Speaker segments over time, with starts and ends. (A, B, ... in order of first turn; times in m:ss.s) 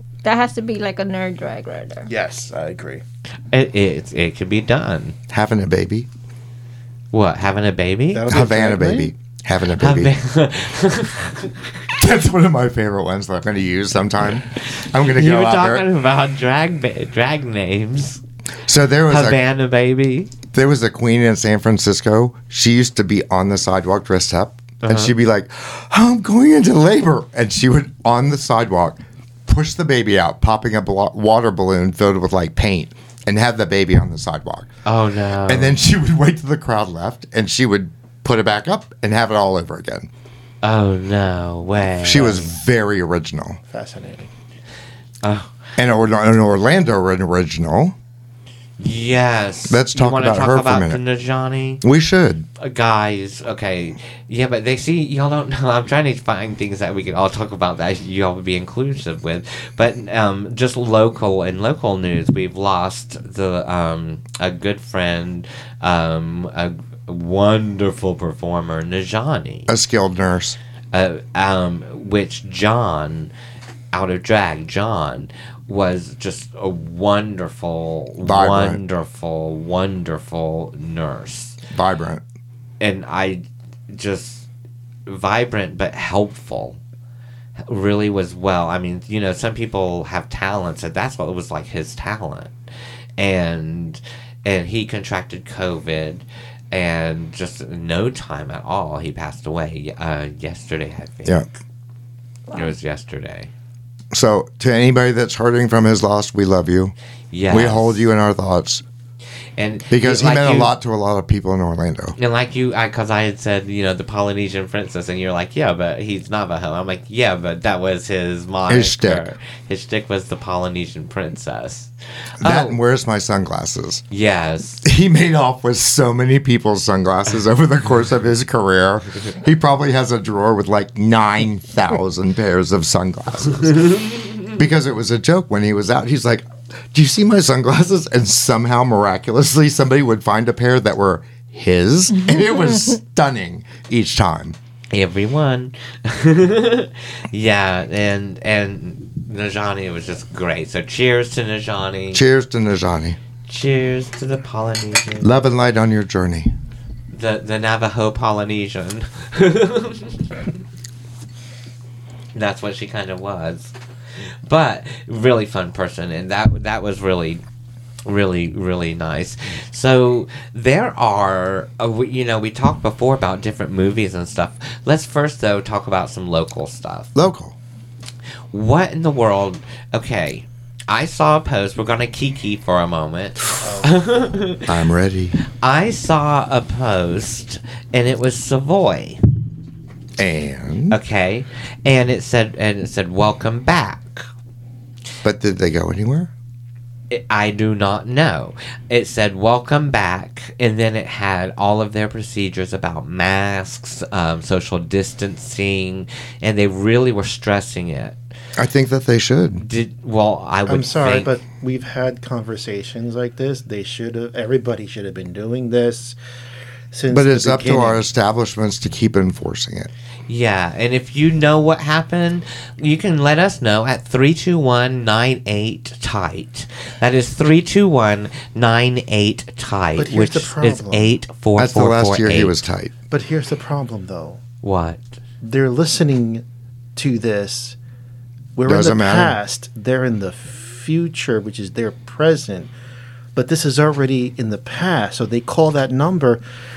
0:00.2-0:02.1 A
0:02.1-0:03.0 B
0:03.5-0:05.2 C
0:05.3-0:06.1 D
0:07.1-0:08.3 C
0:08.1-0:09.1 B
0:08.3-0:10.1 D
0:09.7-0:11.7 C
0:11.9-0:15.8 D
0:15.0-0:18.2 C
0:18.7-0:19.4 D
0:19.1-0:20.3 C
0:20.5-0:34.7 D
0:24.8-0:25.1 C
0:34.8-0:35.8 C
0:35.4-0:40.1 D
0:40.6-0:42.5 C
0:42.0-0:43.6 D
0:43.7-0:44.3 B
0:45.2-0:45.5 C
0:45.8-0:47.9 D
0:48.8-0:51.8 C
0:49.7-0:51.0 D
0:51.8-0:52.5 D
0:52.6-1:09.7 C
1:09.7-1:10.6 D
1:10.9-1:13.3 C
1:13.9-1:21.6 C
1:18.2-1:18.8 D
1:21.7-1:22.2 D
1:22.8-1:24.4 C
1:25.0-1:26.8 C
1:27.6-1:32.5 C
1:33.2-1:41.5 C
1:42.5-1:43.5 C
1:44.1-1:46.9 D
1:47.3-1:48.1 C
1:47.5-1:48.8 D
1:49.6-1:50.7 C
1:49.9-1:52.2 D
1:52.2-2:02.8 C
1:58.7-1:59.3 D
2:02.4-2:04.0 D
2:04.1-2:04.8 C
2:04.8-2:13.9 D
2:13.9-2:14.3 C
2:14.6-2:24.6 D
2:22.3-2:22.9 A
2:24.9-2:32.2 C
2:32.1-2:33.2 D
2:33.5-2:35.3 C
2:35.2-2:36.5 D
2:37.1-2:40.5 C
2:42.3-2:43.7 C
2:44.4-2:47.4 C
2:48.0-2:57.1 C
2:57.1-2:57.5 D
2:58.5-3:04.8 C
3:03.6-3:04.0 B
3:04.7-3:05.4 D
3:05.5-3:09.2 C
3:10.2-3:11.0 D
3:10.9-3:14.2 C
3:15.2-3:16.3 D
3:17.1-3:28.2 C
3:28.6-3:29.6 D
3:29.6-3:31.3 C
3:30.7-3:36.2 B
3:36.9-3:38.0 B
3:37.1-3:39.9 D
3:40.3-3:52.6 C
3:50.0-3:51.1 B
3:51.6-3:52.9 D
3:53.1-3:54.4 B
3:54.6-3:55.0 C
3:55.4-3:56.4 B
3:56.9-3:57.8 B
3:58.5-4:02.7 B
3:58.6-3:59.4 D
4:03.3-4:06.4 B